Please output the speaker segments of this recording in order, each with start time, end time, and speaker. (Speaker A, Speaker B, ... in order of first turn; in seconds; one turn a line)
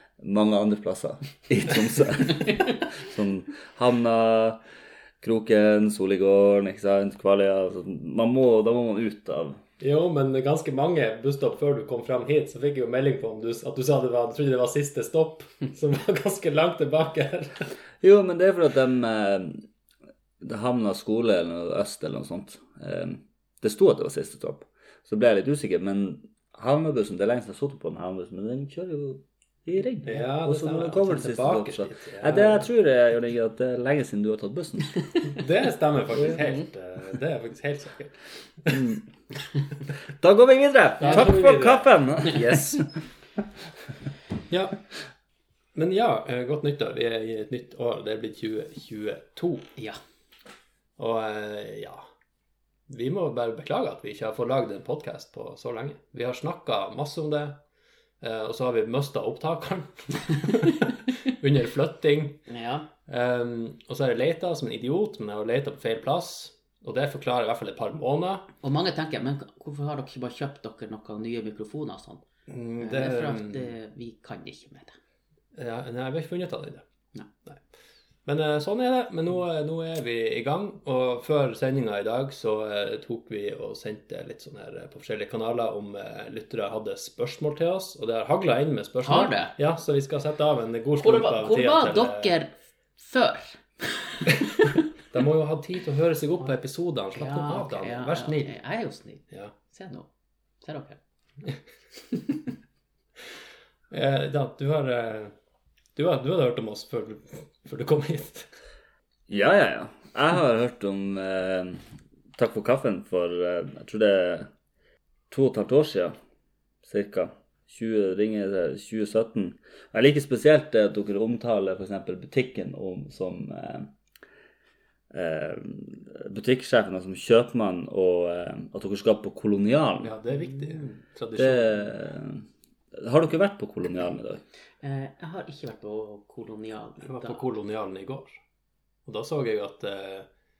Speaker A: 0.2-4.6
Speaker A: 5.2-9.6
Speaker B: 9.8-17.7
Speaker A: 18.0-19.6
Speaker A: 20.4-34.9
Speaker B: 30.1-32.7
Speaker B: 35.4-39.0
Speaker A: 38.7-39.0
Speaker A: 40.2-42.9
Speaker B: 41.0-41.9
Speaker B: 44.5-44.8
Speaker B: 45.8-49.7
Speaker B: 51.0-52.0
Speaker B: 52.9-57.6
Speaker B: 58.2-62.4
Speaker C: 62.5-62.9
Speaker B: 63.1-68.5
Speaker C: 68.6-72.2
Speaker B: 72.5-73.7
Speaker C: 72.8-75.0
Speaker B: 75.5-76.8
Speaker B: 78.3-92.3
Speaker C: 89.0-89.5
Speaker C: 91.0-94.3
Speaker B: 95.1-98.5
Speaker C: 97.2-100.1
Speaker C: 100.6-101.0
Speaker B: 103.9-105.3
Speaker B: 106.0-108.5
Speaker A: 109.3-111.8
Speaker A: 112.4-114.5
Speaker A: 115.3-116.2
Speaker A: 116.8-123.9
Speaker A: 125.1-130.1
Speaker B: 130.0-131.9
Speaker A: 131.4-132.4
Speaker A: 132.9-134.4
Speaker C: 134.8-137.4
Speaker B: 137.0-138.4
Speaker B: 139.1-140.3